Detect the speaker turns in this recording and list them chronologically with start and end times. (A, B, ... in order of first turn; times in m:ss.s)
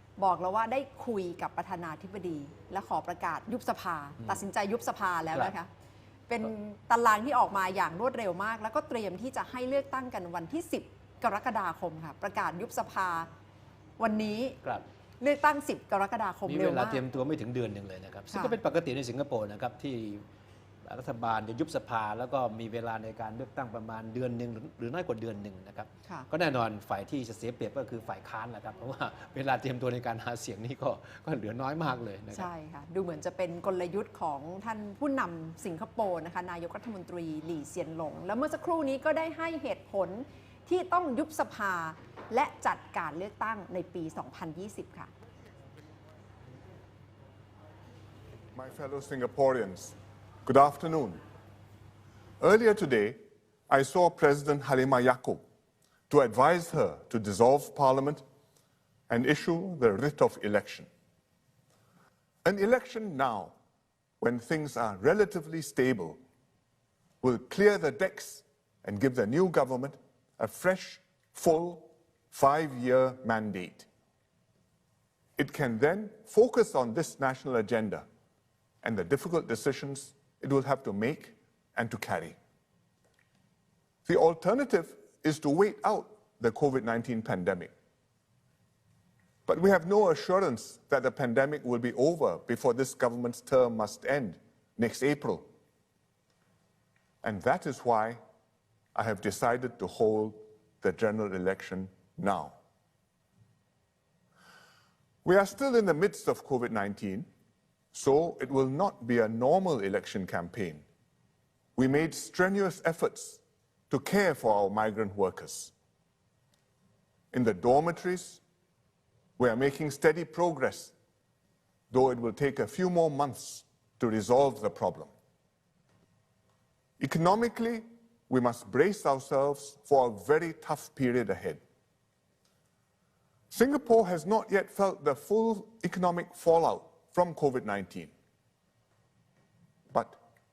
0:00.2-0:05.7 A
0:06.3-0:13.3 A
0:14.0-0:14.6 A
0:15.2-0:17.0 A
0:16.5-0:20.3 B
0:18.3-0:18.6 A
0:20.8-0:32.5 B
0:32.3-0:45.1 A
0:48.5-0:51.2 C
0:52.4-0:53.2 C
0:53.7-0:55.4 C
0:56.1-0:58.2 C
0:59.1-1:00.9 C
1:02.4-1:03.5 C
1:04.2-1:06.2 C
1:07.2-1:13.9 C
1:15.4-1:18.0 C
1:18.8-1:22.4 C
1:24.0-1:27.7 C
1:29.5-1:35.5 C
1:37.2-1:38.2 C
1:39.0-1:42.6 C
1:45.2-1:47.3 C
1:47.9-1:50.9 C
1:51.8-1:55.7 C
1:57.3-1:58.4 C
1:59.4-2:00.9 C
2:01.9-2:05.1 C
2:07.0-2:11.6 C
2:13.5-2:18.1 C
2:19.9-2:20.2 C